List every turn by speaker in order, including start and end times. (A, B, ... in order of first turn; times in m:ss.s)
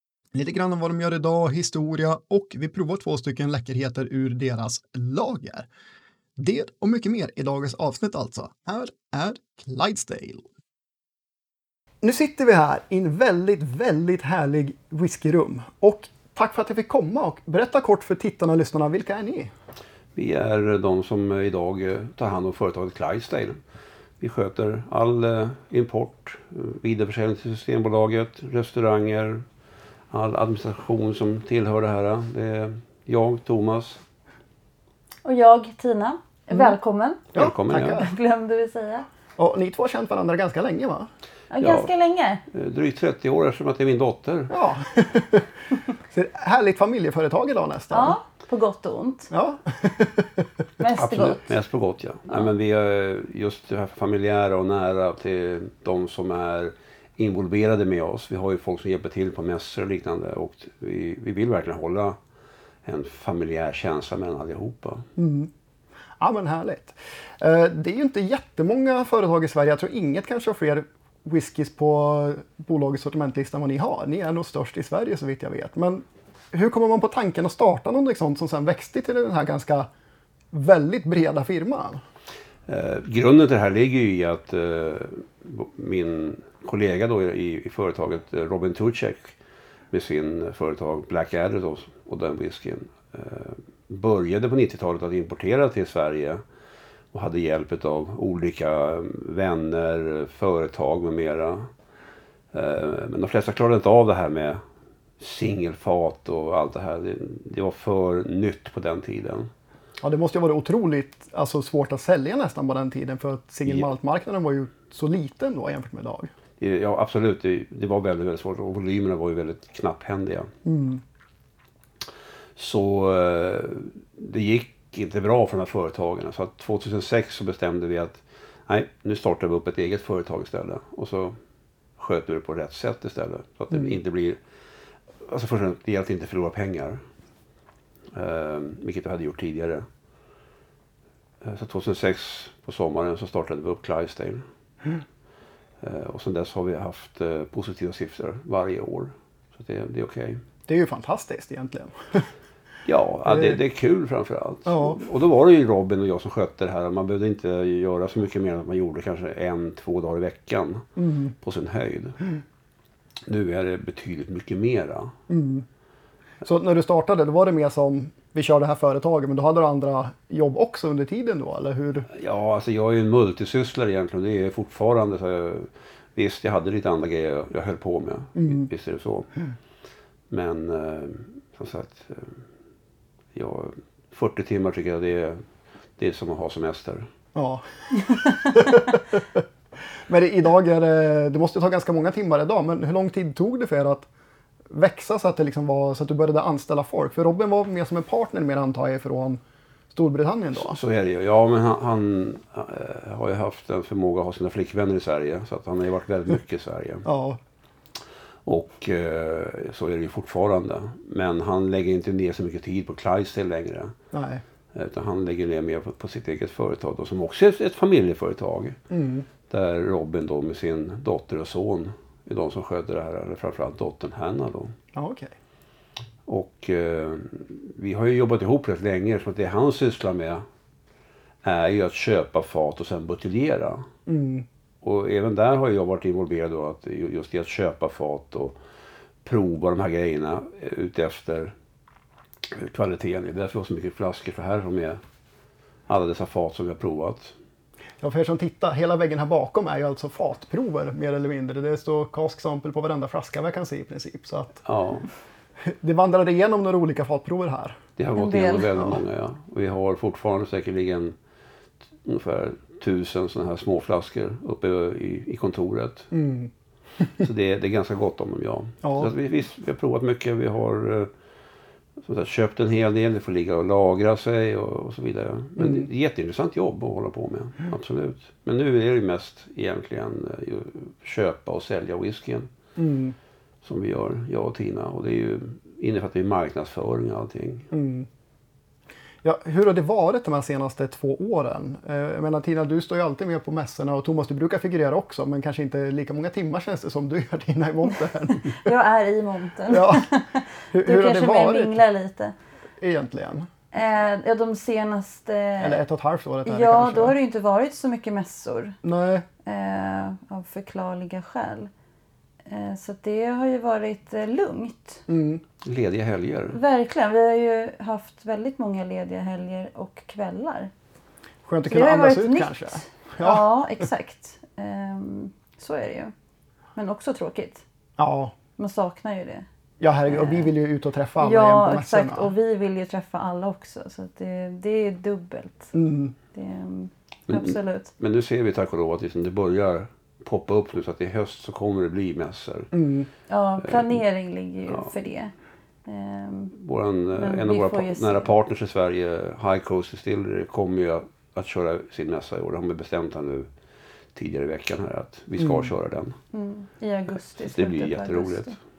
0:00.3-0:05.7 A
0:06.4-0:10.4 A
0:12.0-0:19.5 A
0:20.1-0:23.6 B
0:24.2-0:29.4 B
0:30.1-0:34.0 B
0:35.2-0:37.2 C
0:37.3-0:38.1 B
0:37.3-0:38.1 A
0:37.8-0:39.0 C
0:39.4-0:41.1 A
0:41.5-0:42.4 C
0:41.6-0:41.9 B
0:42.5-0:44.6 B
0:44.5-0:48.2 A
0:47.9-0:49.3 C
0:49.3-0:50.6 A
0:50.8-0:51.5 C
0:50.9-1:02.2 B
1:02.8-1:05.1 B
1:05.2-1:05.5 A
1:06.2-1:19.9 A
1:20.5-1:22.0 A
1:22.7-1:29.4 B
1:29.9-1:36.4 B
1:37.1-1:41.7 B
1:42.5-1:44.6 B
1:45.2-1:49.5 B
1:50.0-1:56.3 A
1:56.6-2:00.5 B
2:00.6-2:01.0 A
2:02.6-2:11.4 B
2:12.0-2:14.4 B
2:15.2-2:17.0 B
2:18.1-2:19.9 B
2:21.4-2:24.4 B
2:25.8-2:30.4 B
2:30.7-2:32.3 A
2:32.8-2:40.9 B
2:33.3-2:33.6 A
2:34.7-2:35.0 A
2:41.0-2:41.3 A
2:41.4-2:42.2 B
2:43.3-2:45.1 B
2:45.3-2:45.6 A
2:46.4-2:52.1 A
2:52.1-2:59.3 B
2:58.4-2:58.7 A
3:00.3-3:02.4 B
3:03.3-3:05.4 B
3:06.0-3:07.1 B
3:07.3-3:09.4 A
3:10.0-3:14.1 A
3:14.7-3:19.4 A
3:19.9-3:20.8 A
3:20.5-3:27.0 B
3:27.0-3:27.4 A
3:28.4-3:34.0 B
3:34.1-3:34.4 A
3:34.7-3:38.8 B
3:38.9-3:39.2 A
3:39.5-3:44.8 B
3:44.9-3:45.3 A
3:46.2-3:50.4 B
3:51.4-3:53.9 B
3:54.0-3:54.4 A
3:54.8-3:58.6 B
3:59.2-4:01.5 B
4:02.5-4:05.0 B
4:05.9-4:07.4 B
4:08.0-4:14.6 A
4:14.6-4:15.1 B
4:15.6-4:17.8 A
4:18.0-4:21.2 B
4:18.2-4:18.7 C
4:22.0-4:26.1 B
4:26.1-4:26.5 A
4:27.2-4:31.1 B
4:28.8-4:29.1 A
4:32.0-4:42.5 B
4:35.6-4:35.9 A
4:42.8-4:43.2 A
4:43.6-4:47.7 B
4:47.7-4:48.1 A
4:49.2-4:58.7 A
4:58.3-5:02.3 C
4:59.7-5:00.1 A
5:00.7-5:01.8 A
5:02.8-5:03.5 A
5:03.7-5:05.8 C
5:05.6-5:07.2 A
5:06.4-5:08.8 C
5:08.8-5:09.2 A
5:09.4-5:11.7 C
5:12.4-5:15.0 C
5:15.1-5:15.4 A
5:15.6-5:16.6 B
5:16.5-5:20.7 C
5:21.4-5:23.4 A
5:21.7-5:26.1 C
5:26.7-5:27.6 C
5:28.0-5:28.3 A
5:28.6-5:29.4 C
5:29.8-5:32.3 A
5:30.1-5:30.5 C
5:31.2-5:35.8 C
5:35.7-5:36.1 A
5:36.3-5:37.9 C
5:37.3-5:42.7 B
5:42.7-5:43.1 A
5:43.3-5:45.3 C
5:43.6-5:44.0 B
5:45.8-5:46.5 C
5:46.5-5:53.5 B
5:47.2-5:48.3 C
5:54.1-5:56.2 B
5:55.4-5:55.7 A
5:56.3-5:58.5 C
5:57.3-5:58.6 B